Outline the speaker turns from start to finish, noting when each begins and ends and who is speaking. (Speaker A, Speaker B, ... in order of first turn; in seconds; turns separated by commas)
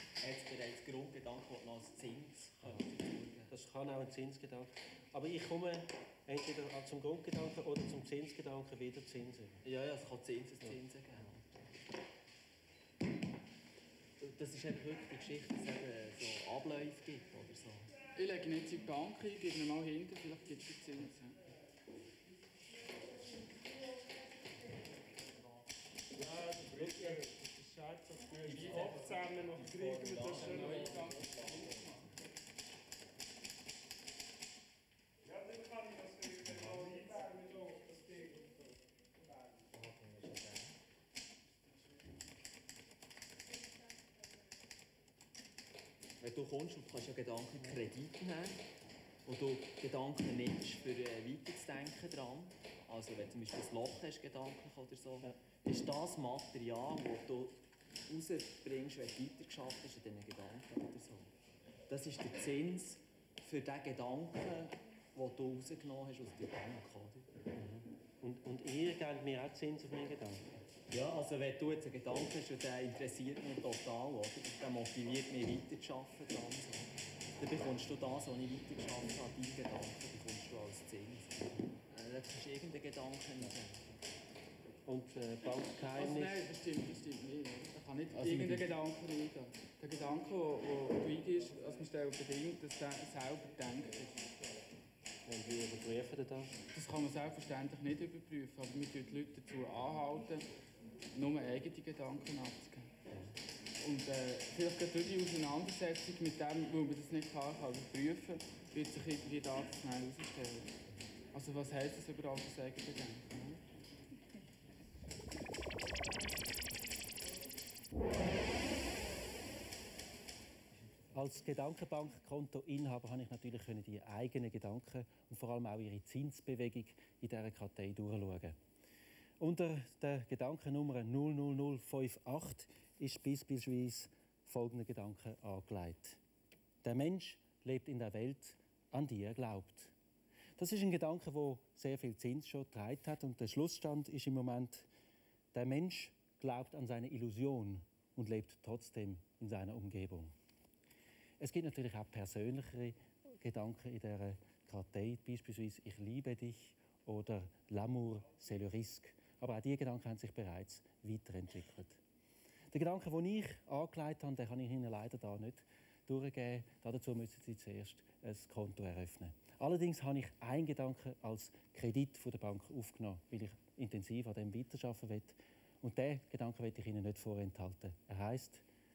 Speaker A: 0.2-3.5, Speaker B: 3.5-9.6, Speaker A: 9.6-11.4, Speaker A: 14.2-17.9, Speaker C: 18.1-21.4, Speaker D: 26.5-26.8, Speaker D: 27.8-28.1, Speaker A: 28.4-31.2, Speaker C: 28.5-28.9, Speaker D: 28.9-30.4, Speaker C: 30.3-32.0, Speaker D: 35.3-38.5, Speaker A: 36.5-36.9, Speaker A: 39.7-40.7, Speaker A: 46.2-48.6, Speaker A: 49.2-61.3, Speaker A: 61.9-67.3, Speaker B: 67.5-70.6, Speaker A: 70.9-84.0, Speaker B: 84.8-86.3, Speaker C: 85.9-94.3, Speaker A: 88.1-88.7, Speaker B: 95.2-96.5, Speaker C: 96.7-100.5, Speaker C: 101.1-103.0, Speaker B: 103.1-103.3, Speaker C: 103.8-110.8, Speaker C: 111.3-113.6, Speaker B: 121.1-128.6, Speaker B: 129.4-136.2, Speaker B: 136.8-139.9, Speaker B: 140.6-144.9, Speaker B: 145.5-150.3, Speaker B: 151.4-162.0, Speaker B: 162.7-178.6